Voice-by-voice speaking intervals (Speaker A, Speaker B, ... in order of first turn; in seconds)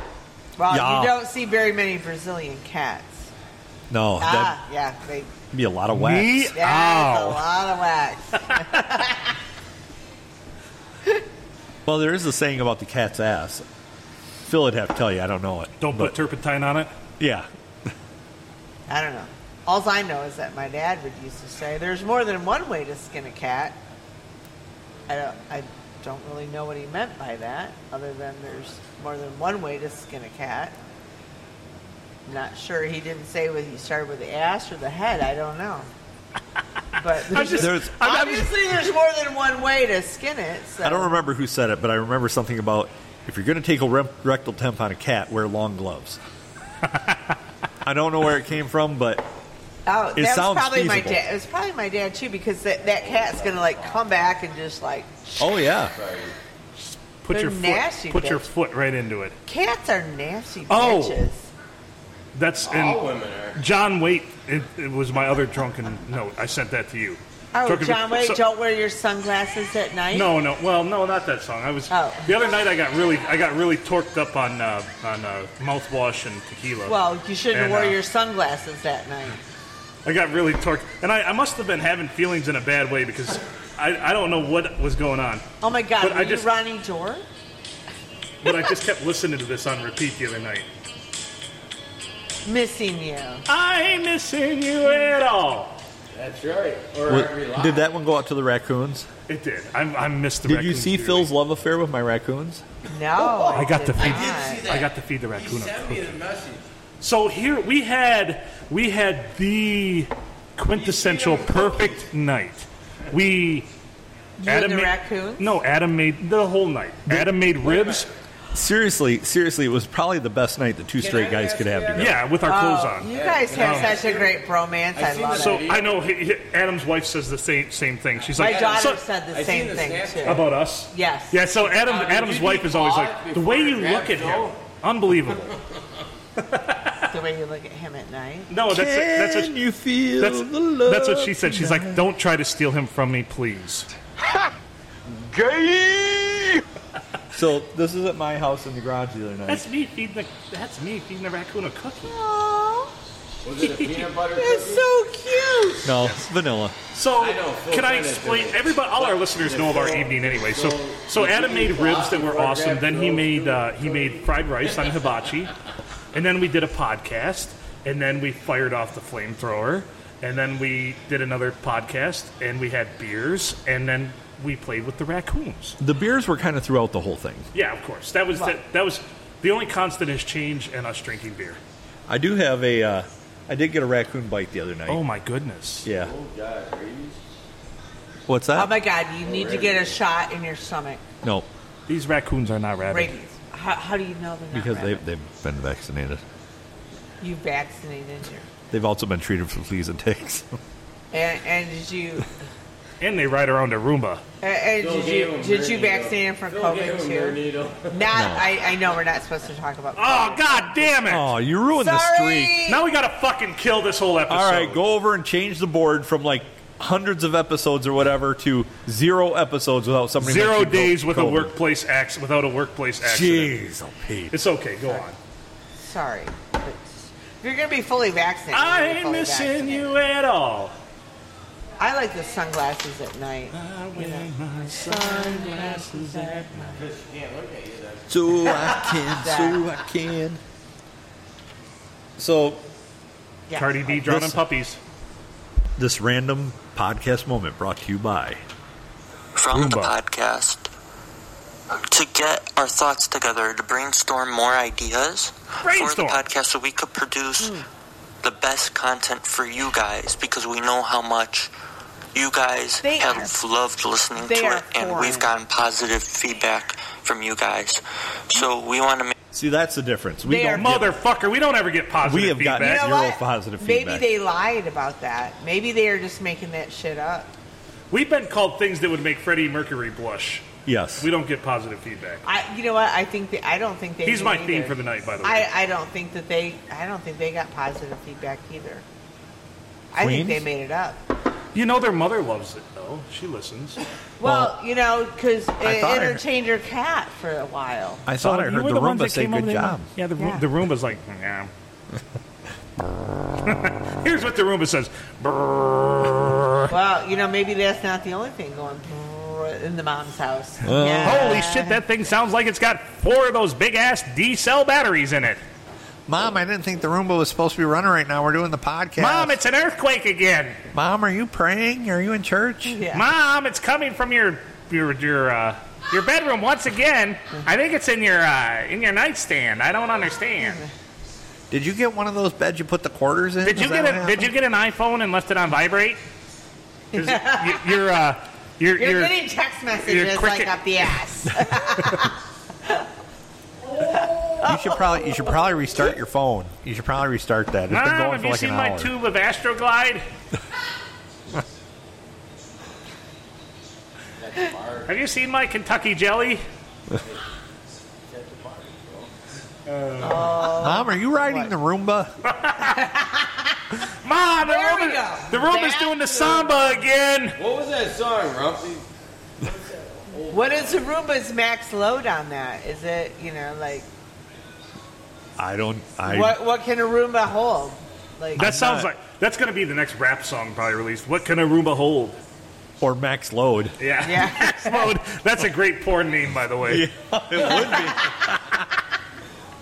Speaker A: 0.6-3.3, 4.2-5.3, 6.5-9.3, 18.9-23.8, 25.1-30.8, 32.3-35.9, 37.0-41.1, 49.9-55.6, 57.3-58.5, 59.5-61.5, 67.5-70.3, 71.9-72.3, 76.9-79.4, 85.6-87.3, 92.5-93.5, 102.9-104.7, 114.4-115.5, 122.5-125.7, 128.4-131.4, 137.1-138.5, 152.0-152.9, 154.3-155.9, 188.6-191.0, 192.9-195.0, 197.2-198.5, 201.1-202.3, 204.4-207.4, 207.9-211.0, 211.7-212.8, 225.8-229.9, 231.8-236.8, 238.7-239.7, 243.5-243.9, 257.4-257.7, 262.8-263.4, 264.2-265.3, 270.3-270.8, 272.6-277.3, 282.2-288.8, 289.9-291.0, 294.2-298.1, 300.2-300.4, 306.7-311.8, 322.7-323.1, 336.9-337.8, 338.8-342.9, 343.9-345.1, 360.0-361.5, 362.6-363.8, 364.4-366.7, 370.3-373.9, 376.1-378.5, 384.0-384.9, 387.5-388.1
Speaker B: 0.7-1.1, 3.9-4.6, 5.5-6.5, 11.9-13.7, 14.4-16.1, 17.2-17.5, 37.6-37.9, 40.8-46.2, 47.8-49.2, 50.1-51.2, 55.4-55.9, 97.1-99.1, 100.5-102.6, 118.5-122.2, 138.7-142.0, 147.3-149.7, 155.8-156.8, 175.8-177.5, 182.1-185.0, 185.8-186.1, 188.3-188.8, 194.5-196.2, 198.7-200.6, 208.1-208.5, 211.1-212.6, 214.3-221.5, 223.0-224.4, 234.8-235.3, 238.1-240.4, 242.2-242.6, 244.0-244.4, 245.8-248.4, 269.3-270.9, 272.0-274.1, 280.7-281.1, 290.0-290.5, 294.2-294.5, 295.6-296.2, 298.1-299.9, 310.6-311.4, 316.1-319.4, 320.7-322.8, 331.5-334.3, 344.4-348.9, 360.6-362.1, 375.4-376.4, 378.4-378.9, 382.8-383.8, 386.6-388.6
Speaker C: 5.9-7.4, 15.8-16.9, 37.2-38.5, 46.9-47.1, 56.8-59.4, 60.7-61.3, 62.3-63.0, 63.6-68.4, 70.1-78.0, 80.0-85.5, 86.0-86.5, 88.4-90.7, 93.5-95.8, 99.3-101.3, 103.5-106.2, 107.0-113.7, 114.5-118.1, 122.0-124.0, 125.3-129.0, 130.2-135.6, 136.4-137.1, 138.5-139.6, 140.2-143.9, 149.5-152.1, 153.6-154.0, 156.9-165.5, 166.1-175.8, 177.5-181.6, 184.9-185.9, 191.9-193.1, 203.0-204.2, 210.0-211.3, 212.7-214.8, 220.2-223.6, 224.3-225.2, 228.5-230.8, 233.5-236.7, 243.6-244.8, 249.5-250.0, 255.6-256.2, 270.5-272.9, 277.9-282.2, 284.0-285.5, 291.5-293.8, 298.2-301.5, 303.4-306.7, 311.0-315.4, 319.0-320.6, 322.9-330.6, 333.4-336.0, 336.9-339.1, 339.9-340.6, 347.7-350.1, 354.9-356.4, 359.7-360.4, 362.2-362.8, 363.9-367.4, 378.4-382.2, 383.8-386.9
Speaker D: 53.0-54.0, 55.9-56.4, 62.6-63.6, 96.1-97.9, 103.2-106.6, 110.7-112.0, 117.6-118.0, 121.0-122.2, 123.1-124.4, 125.0-126.0, 128.4-130.5, 131.6-134.6, 145.1-146.6, 153.4-154.9, 157.2-164.9, 185.9-187.2, 189.2-190.0, 204.8-208.1, 236.7-238.7, 354.2-354.9, 358.1-359.1, 367.4-368.9, 369.4-370.9
Speaker E: 249.4-250.7, 251.7-257.6, 258.2-261.5, 262.1-269.1